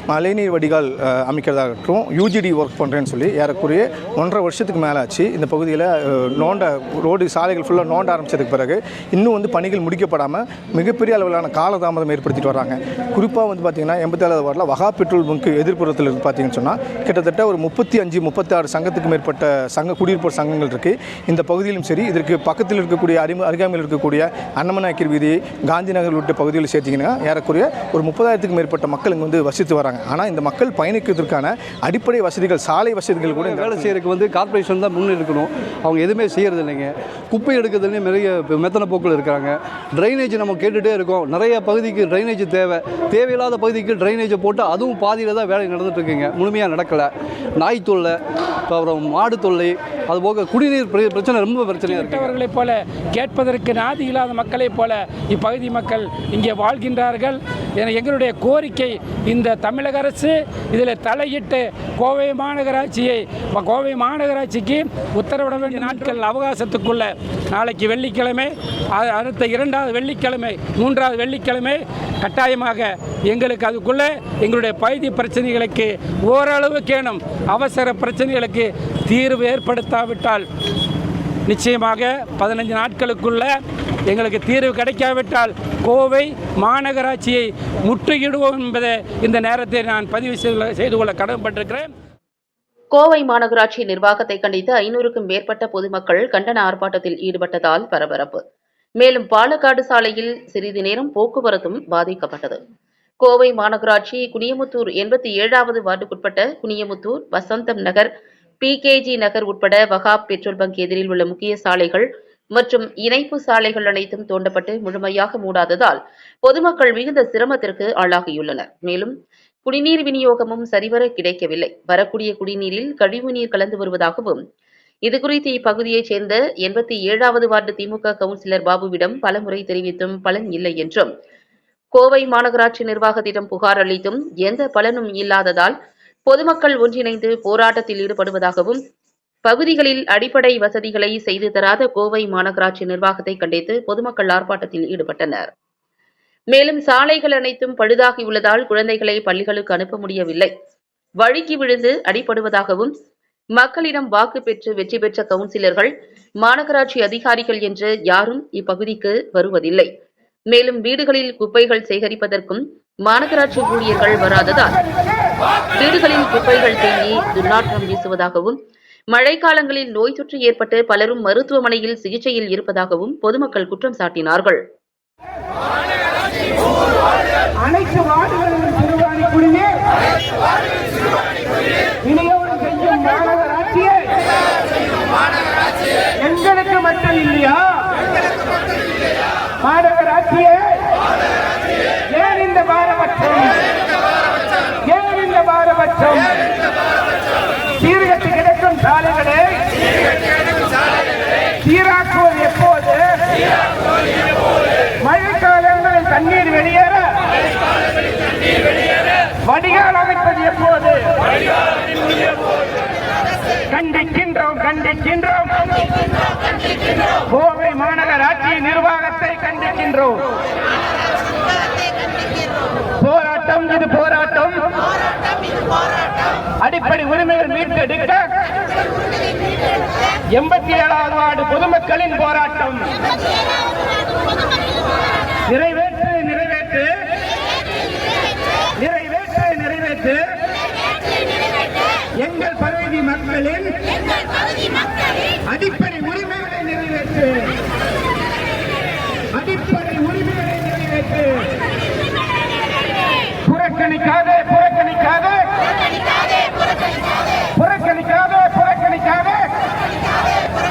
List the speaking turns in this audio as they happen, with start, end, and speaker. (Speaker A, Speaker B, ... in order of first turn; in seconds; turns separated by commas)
Speaker A: 0.1-34.0, Speaker B: 33.4-48.2, Speaker B: 48.7-52.4, Speaker C: 51.8-80.5, Speaker C: 81.5-83.5, Speaker C: 84.1-91.9, Speaker D: 92.9-98.4, Speaker D: 99.0-102.6, Speaker D: 103.2-108.1, Speaker D: 108.6-119.1, Speaker D: 119.7-124.4, Speaker D: 125.1-131.1, Speaker D: 131.9-135.8, Speaker D: 136.3-138.8, Speaker D: 139.4-145.5, Speaker D: 146.5-150.5, Speaker D: 151.2-152.9, Speaker D: 153.6-159.9, Speaker D: 160.5-164.8, Speaker D: 165.8-168.6, Speaker D: 169.1-174.6, Speaker C: 177.7-179.6, Speaker C: 182.1-183.9, Speaker E: 182.7-183.9, Speaker C: 186.3-187.4, Speaker E: 186.3-186.6, Speaker C: 189.7-190.6, Speaker C: 192.2-193.5, Speaker E: 193.1-193.6, Speaker E: 194.9-196.4, Speaker C: 195.0-196.2, Speaker C: 197.9-199.4, Speaker E: 197.9-199.6, Speaker C: 201.7-202.8, Speaker E: 201.8-202.9, Speaker E: 205.1-206.9, Speaker C: 205.2-206.9, Speaker C: 209.6-210.9, Speaker E: 209.6-211.2, Speaker E: 213.8-215.4, Speaker C: 213.9-215.3, Speaker E: 217.4-220.2, Speaker C: 218.3-220.0, Speaker C: 223.1-224.4, Speaker E: 223.1-224.6, Speaker E: 226.7-228.2, Speaker C: 226.8-228.1, Speaker E: 230.4-232.8, Speaker C: 230.6-232.6, Speaker E: 235.6-236.9, Speaker C: 235.7-236.5, Speaker E: 238.8-240.2, Speaker E: 242.2-243.7, Speaker E: 245.5-247.5, Speaker E: 249.4-251.4, Speaker E: 253.5-255.4, Speaker C: 253.6-255.1, Speaker E: 257.6-259.4